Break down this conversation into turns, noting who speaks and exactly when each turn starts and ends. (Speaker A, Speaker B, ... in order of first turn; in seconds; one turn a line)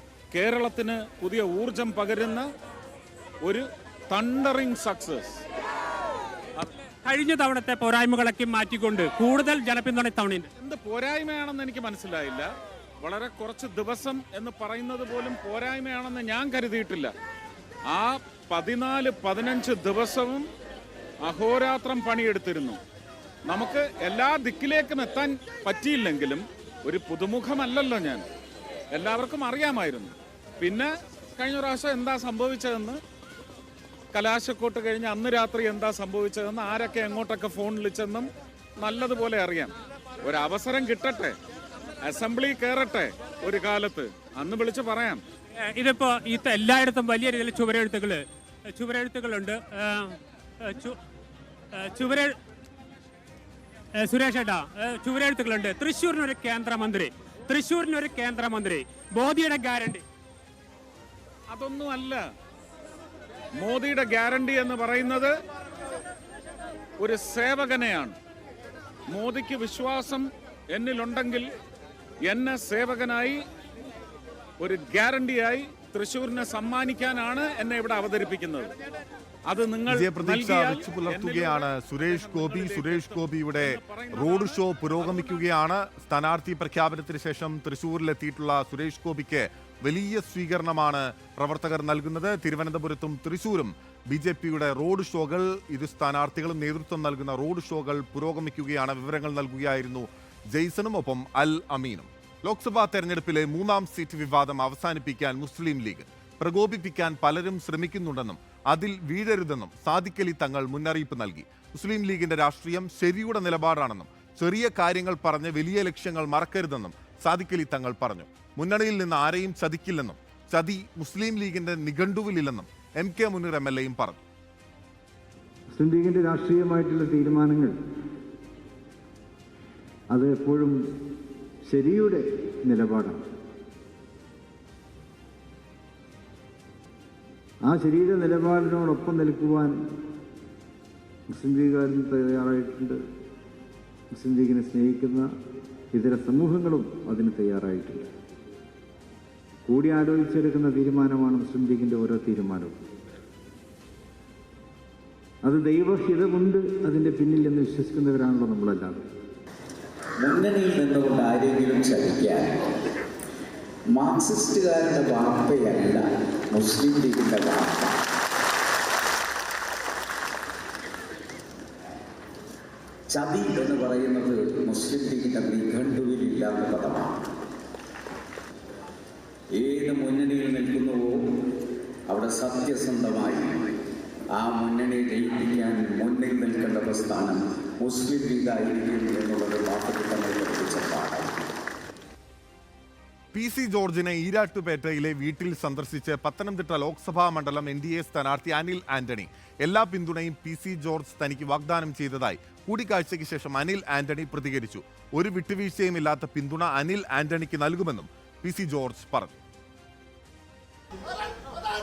Speaker A: 0.3-2.5
Speaker A: 3.5-5.4
Speaker B: 7.0-10.5
Speaker A: 10.6-12.5
Speaker A: 13.0-17.1
Speaker A: 17.9-20.4
Speaker A: 21.2-22.8
Speaker A: 23.5-28.2
Speaker A: 28.9-33.0
Speaker A: 34.1-41.4
Speaker A: 42.0-45.2
Speaker B: 45.7-51.0
Speaker B: 51.8-52.3
Speaker B: 54.0-60.0
Speaker A: 61.5-62.2
Speaker A: 63.6-65.3
Speaker A: 67.0-68.2
Speaker A: 69.1-71.5
Speaker A: 72.2-73.4
Speaker A: 74.6-78.7
Speaker A: 79.5-85.5
Speaker C: 79.9-124.2
Speaker D: 125.7-127.7
Speaker D: 130.1-130.8
Speaker D: 131.7-133.2
Speaker D: 137.6-139.8
Speaker D: 141.3-143.0
Speaker D: 144.1-145.3
Speaker D: 145.9-148.1
Speaker D: 149.7-152.8
Speaker D: 155.4-159.0
Speaker E: 160.2-162.5
Speaker E: 163.9-166.0
Speaker E: 166.6-167.8
Speaker E: 173.1-177.1
Speaker E: 179.6-181.2
Speaker E: 182.1-183.6
Speaker E: 184.4-191.3
Speaker C: 193.3-209.3